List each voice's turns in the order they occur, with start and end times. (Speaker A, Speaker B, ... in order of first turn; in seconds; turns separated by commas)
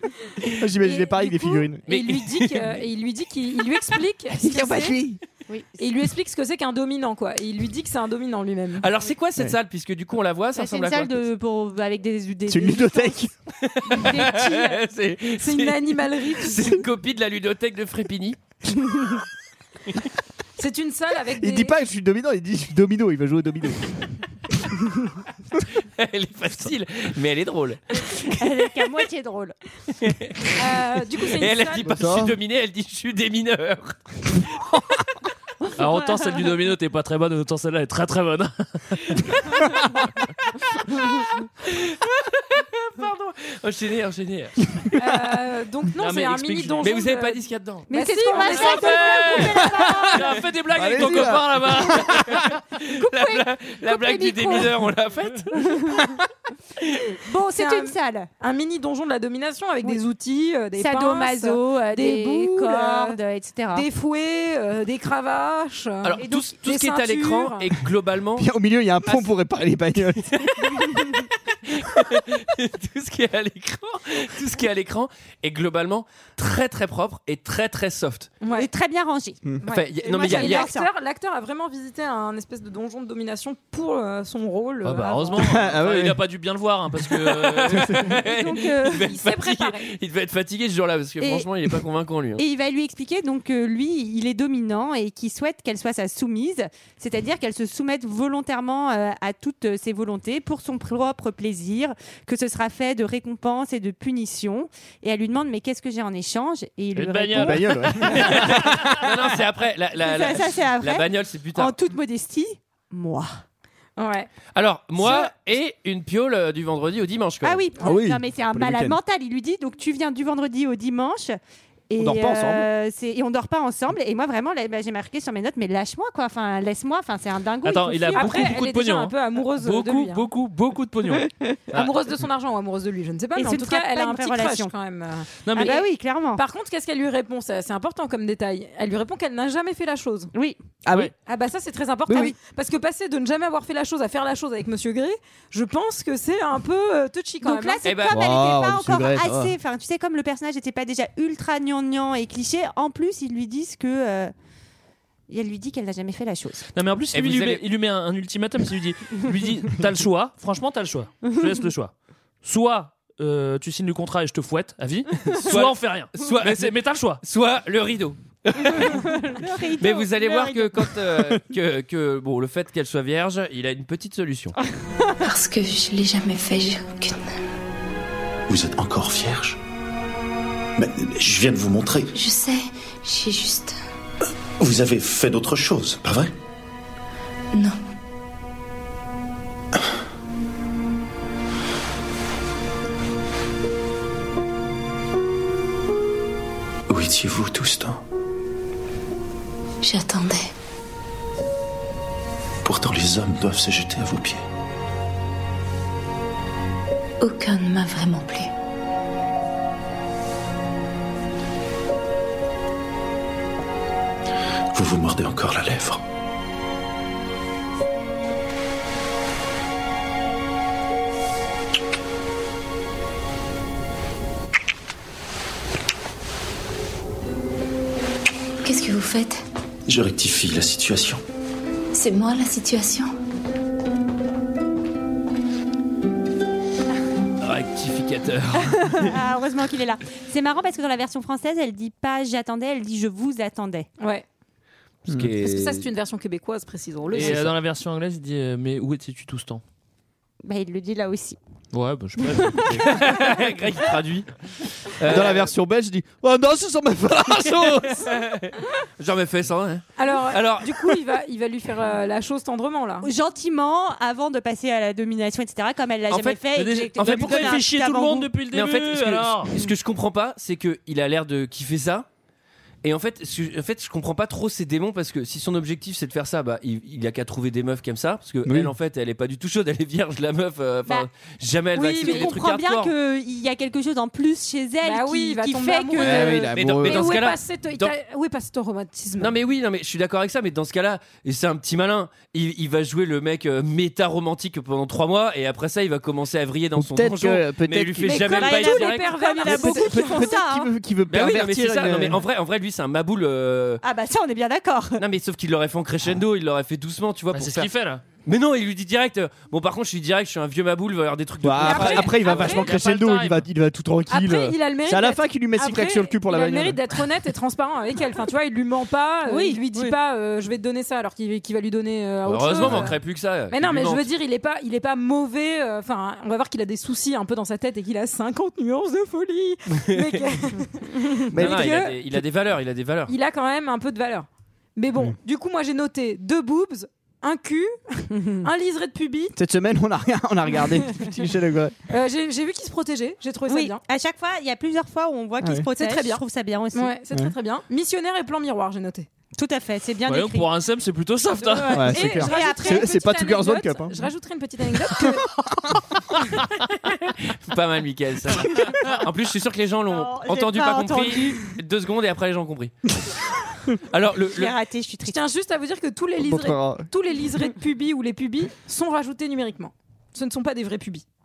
Speaker A: 0.6-1.9, Speaker B: 0.8-5.0, Speaker C: 1.9-2.6, Speaker A: 4.3-5.2, Speaker D: 5.5-5.7, Speaker B: 5.8-8.9, Speaker C: 8.8-11.3, Speaker D: 10.6-13.2, Speaker A: 12.5-13.3, Speaker C: 13.6-18.4, Speaker D: 13.9-14.8, Speaker B: 15.4-16.6, Speaker B: 20.6-21.8, Speaker A: 21.4-23.9, Speaker C: 25.8-28.4, Speaker D: 28.0-29.6, Speaker C: 29.9-30.6, Speaker B: 30.6-31.9, Speaker C: 31.3-34.6, Speaker A: 31.9-32.4, Speaker E: 35.8-39.2, Speaker D: 35.8-36.5, Speaker C: 41.6-44.5, Speaker B: 45.0-50.0, Speaker E: 46.0-47.0, Speaker C: 46.8-47.9, Speaker D: 47.9-50.4, Speaker E: 48.4-52.5, Speaker A: 50.7-52.4, Speaker C: 52.3-55.7, Speaker D: 53.0-54.7, Speaker D: 55.6-56.0, Speaker D: 57.2-58.3, Speaker B: 57.5-63.2, Speaker D: 60.8-63.9, Speaker B: 63.7-67.7, Speaker C: 66.0-68.5, Speaker D: 66.2-66.5, Speaker A: 68.4-70.2, Speaker C: 70.2-78.3, Speaker B: 78.4-78.7, Speaker D: 78.5-79.4, Speaker B: 79.6-85.4, Speaker C: 79.7-80.7, Speaker D: 80.1-80.9, Speaker E: 84.8-88.1, Speaker A: 85.4-86.2, Speaker C: 87.1-92.4, Speaker A: 87.7-88.1, Speaker D: 88.2-89.1, Speaker B: 89.1-89.9, Speaker D: 91.2-91.5, Speaker D: 92.4-108.1, Speaker E: 107.0-108.9, Speaker A: 107.3-109.2, Speaker C: 108.1-111.8, Speaker D: 110.0-113.3, Speaker B: 114.0-114.3, Speaker C: 114.5-117.7, Speaker D: 117.4-121.4, Speaker A: 117.8-119.0, Speaker D: 121.9-128.5, Speaker A: 122.0-122.7, Speaker E: 127.6-131.3, Speaker B: 128.1-130.2, Speaker B: 131.7-140.3, Speaker D: 133.4-134.7, Speaker E: 135.5-135.8, Speaker D: 135.6-136.4, Speaker A: 140.8-141.1, Speaker B: 141.3-147.9, Speaker A: 142.1-142.3, Speaker D: 147.4-154.3, Speaker C: 147.8-148.2, Speaker A: 148.1-149.6, Speaker D: 155.3-156.7, Speaker E: 156.8-167.2, Speaker C: 157.1-157.6, Speaker C: 165.2-169.0, Speaker D: 168.6-171.0, Speaker C: 169.8-174.6, Speaker F: 175.2-177.3, Speaker G: 178.5-179.6, Speaker G: 180.8-182.1, Speaker F: 182.1-183.8, Speaker G: 184.6-186.3, Speaker F: 187.5-187.8, Speaker G: 196.9-198.0, Speaker F: 199.8-200.5, Speaker G: 202.6-204.4, Speaker F: 207.2-208.5, Speaker G: 214.7-216.0, Speaker F: 228.6-229.4, Speaker G: 229.9-231.2, Speaker F: 231.9-233.1, Speaker C: 237.4-239.2, Speaker D: 238.9-243.9, Speaker B: 244.0-244.3, Speaker C: 245.1-245.9, Speaker B: 245.4-247.4, Speaker C: 247.1-247.5, Speaker E: 247.2-249.6, Speaker D: 250.4-251.4, Speaker E: 251.7-253.0, Speaker C: 252.8-254.3, Speaker C: 254.9-255.5, Speaker A: 255.0-258.2, Speaker C: 257.9-261.0, Speaker B: 260.0-263.1, Speaker D: 263.0-268.3, Speaker C: 266.1-267.8, Speaker E: 266.5-269.5, Speaker C: 268.5-272.1, Speaker C: 272.8-282.9, Speaker A: 278.4-278.7, Speaker B: 281.8-282.4, Speaker D: 281.8-286.5, Speaker B: 284.8-289.3, Speaker A: 286.0-287.2, Speaker C: 286.5-287.9, Speaker C: 289.2-299.2, Speaker A: 296.8-298.2, Speaker B: 298.0-300.3, Speaker D: 298.3-300.7, Speaker A: 299.4-302.2, Speaker C: 301.1-303.8, Speaker D: 303.8-305.0, Speaker C: 305.0-307.7, Speaker E: 307.3-308.0, Speaker C: 308.2-312.6, Speaker A: 311.4-316.8, Speaker B: 311.6-312.5, Speaker E: 312.2-313.4, Speaker B: 314.1-332.0, Speaker D: 319.3-319.9, Speaker C: 322.2-324.1, Speaker C: 329.9-330.2, Speaker A: 331.3-331.9, Speaker C: 331.4-333.1, Speaker B: 333.1-339.3, Speaker A: 339.4-341.8, Speaker B: 341.9-343.8, Speaker D: 343.5-346.9, Speaker A: 345.4-345.7, Speaker B: 345.8-349.1, Speaker D: 349.4-350.5, Speaker E: 350.1-351.9, Speaker D: 351.4-352.9, Speaker A: 351.7-354.1, Speaker B: 351.8-355.3, Speaker A: 355.0-355.9, Speaker C: 357.3-362.7, Speaker D: 359.9-361.5, Speaker C: 363.9-364.5, Speaker D: 364.3-365.2, Speaker B: 365.1-371.1, Speaker A: 366.2-366.9